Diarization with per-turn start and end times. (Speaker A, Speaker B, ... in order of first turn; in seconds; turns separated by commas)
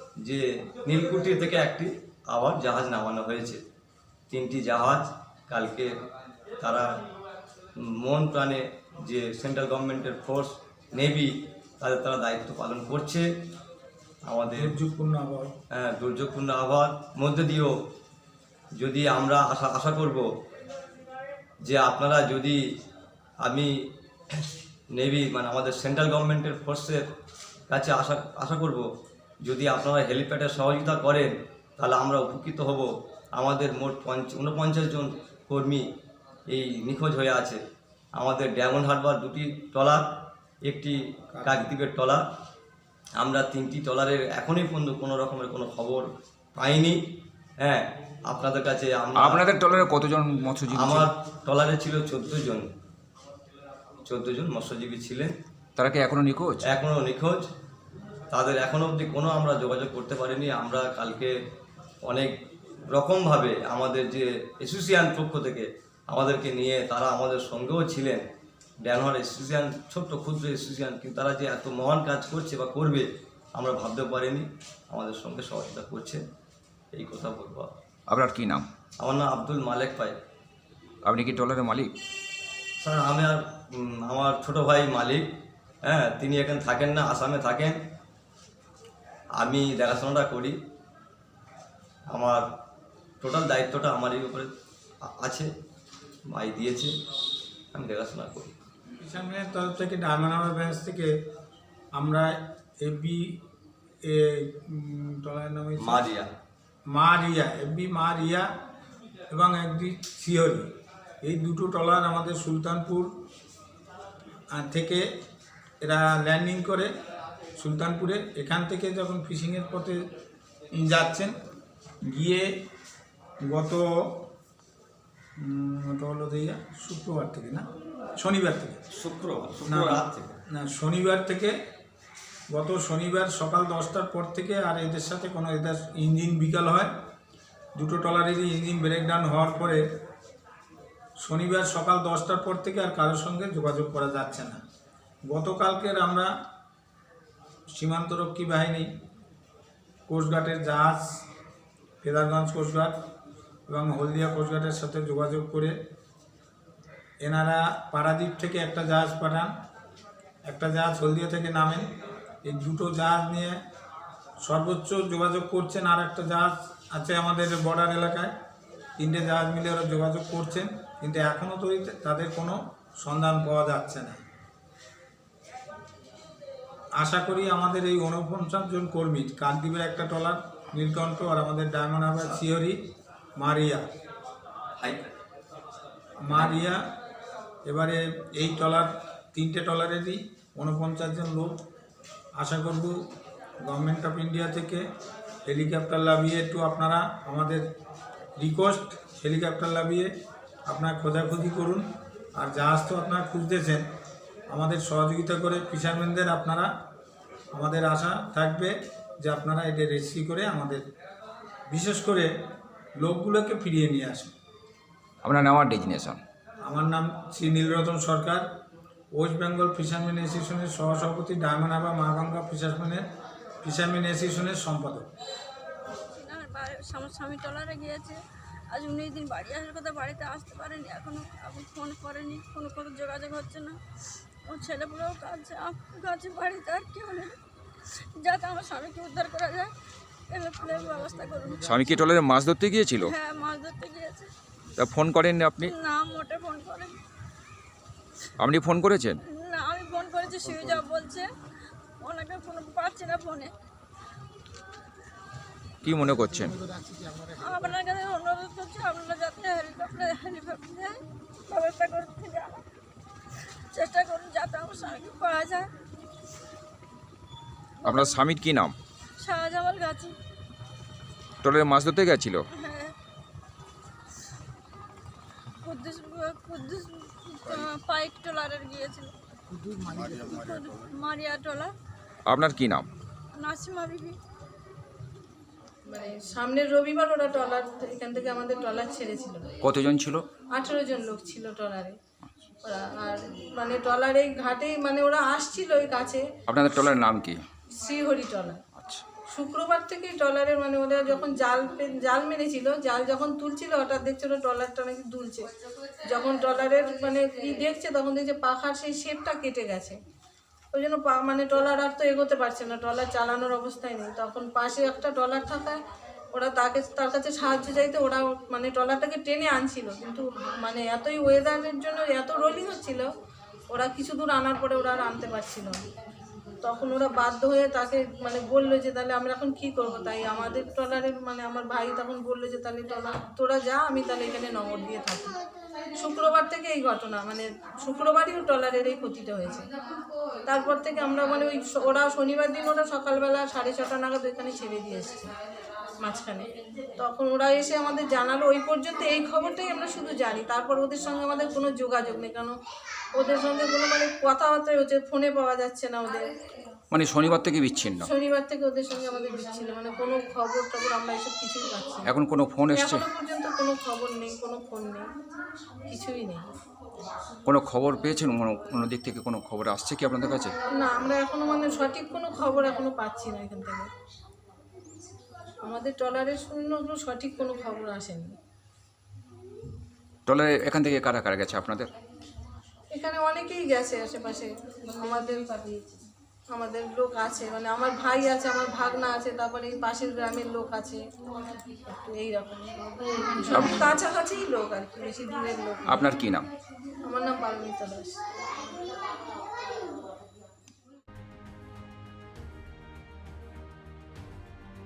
Speaker A: 0.2-3.6, Speaker A: 4.3-5.9, Speaker A: 6.6-6.9, Speaker A: 7.8-13.3, Speaker A: 14.2-14.8, Speaker B: 14.5-15.5, Speaker A: 15.7-17.7, Speaker A: 18.8-20.2, Speaker A: 21.6-22.6, Speaker A: 23.4-23.7, Speaker A: 24.3-27.0, Speaker A: 27.7-28.8, Speaker A: 29.4-35.8, Speaker A: 36.5-37.6, Speaker A: 38.1-40.1, Speaker A: 40.6-42.2, Speaker A: 43.2-47.0, Speaker A: 47.6-49.4, Speaker C: 49.1-51.1, Speaker A: 50.7-52.7, Speaker A: 54.0-55.3, Speaker C: 55.8-56.7, Speaker A: 56.6-57.4, Speaker A: 58.3-61.3, Speaker A: 62.0-62.3, Speaker A: 62.9-68.2, Speaker A: 68.8-76.2, Speaker A: 76.9-77.7, Speaker C: 78.1-78.7, Speaker A: 79.0-80.2, Speaker C: 81.0-81.9, Speaker A: 82.8-85.3, Speaker A: 85.8-87.8, Speaker A: 89.3-90.5, Speaker A: 92.1-92.4, Speaker A: 93.2-94.5, Speaker A: 95.0-95.5, Speaker A: 96.3-96.9, Speaker A: 97.7-98.5, Speaker B: 99.0-101.1, Speaker B: 101.9-103.4, Speaker B: 104.0-106.1, Speaker A: 105.8-106.3, Speaker B: 106.9-108.5, Speaker B: 109.3-110.7, Speaker B: 111.2-113.1, Speaker B: 114.5-115.0, Speaker B: 115.8-116.9, Speaker B: 117.6-120.0, Speaker B: 120.7-121.3, Speaker B: 122.1-122.5, Speaker B: 123.5-124.2, Speaker B: 125.4-127.7, Speaker B: 128.2-128.8, Speaker A: 128.9-130.4, Speaker B: 129.7-131.5, Speaker B: 132.5-136.9, Speaker B: 137.8-139.8, Speaker B: 141.2-144.6, Speaker B: 145.3-146.3, Speaker B: 147.7-148.9, Speaker B: 150.1-151.2, Speaker B: 152.0-152.9, Speaker B: 153.7-155.7, Speaker B: 157.2-159.5, Speaker B: 160.5-161.9, Speaker B: 162.4-163.6, Speaker B: 164.4-168.3, Speaker B: 169.0-174.2, Speaker B: 177.0-182.8, Speaker B: 183.4-183.8, Speaker B: 186.2-186.8, Speaker B: 187.6-191.5, Speaker B: 192.4-193.0, Speaker B: 193.6-194.8, Speaker B: 195.5-197.6, Speaker B: 198.4-200.1, Speaker B: 200.7-203.8, Speaker B: 204.5-206.7, Speaker B: 207.5-210.8, Speaker B: 211.7-212.3, Speaker B: 213.0-214.3, Speaker C: 215.2-216.2, Speaker B: 216.6-218.4, Speaker B: 219.1-223.0, Speaker B: 223.6-225.1, Speaker D: 226.1-228.2, Speaker D: 228.7-233.8, Speaker D: 234.5-237.3, Speaker D: 238.2-239.7, Speaker D: 240.3-241.7, Speaker C: 241.6-243.1, Speaker D: 243.0-244.3, Speaker C: 244.8-245.7, Speaker D: 245.6-247.0, Speaker C: 248.4-249.2, Speaker D: 249.3-251.2, Speaker D: 252.0-253.5, Speaker C: 255.8-256.6, Speaker D: 257.2-262.6, Speaker D: 263.7-265.7, Speaker D: 267.8-268.2, Speaker C: 267.8-268.7, Speaker D: 269.2-270.1, Speaker C: 271.4-272.4, Speaker D: 272.5-272.9, Speaker D: 275.6-279.1, Speaker D: 279.8-281.7, Speaker C: 282.2-282.9, Speaker D: 283.4-284.2, Speaker E: 285.9-289.4, Speaker C: 289.6-290.2, Speaker E: 290.5-292.0, Speaker E: 292.6-296.2, Speaker C: 296.5-297.4, Speaker E: 297.8-298.6, Speaker C: 298.8-299.0, Speaker E: 299.3-305.5, Speaker E: 306.1-309.9, Speaker E: 310.7-315.8, Speaker E: 316.3-323.1, Speaker E: 323.7-325.8, Speaker E: 326.6-335.3, Speaker E: 336.0-339.7, Speaker E: 340.4-345.3, Speaker E: 346.0-352.5, Speaker E: 353.1-356.3, Speaker C: 356.9-358.1, Speaker E: 358.0-362.1, Speaker C: 362.1-363.0, Speaker E: 362.7-365.1, Speaker E: 365.9-366.5, Speaker C: 367.4-370.5, Speaker E: 370.7-373.9, Speaker E: 375.6-378.3, Speaker C: 380.2-381.9, Speaker E: 382.9-386.0, Speaker E: 386.5-391.0, Speaker E: 391.8-396.2, Speaker C: 393.5-393.8, Speaker C: 395.9-396.5, Speaker E: 397.1-398.2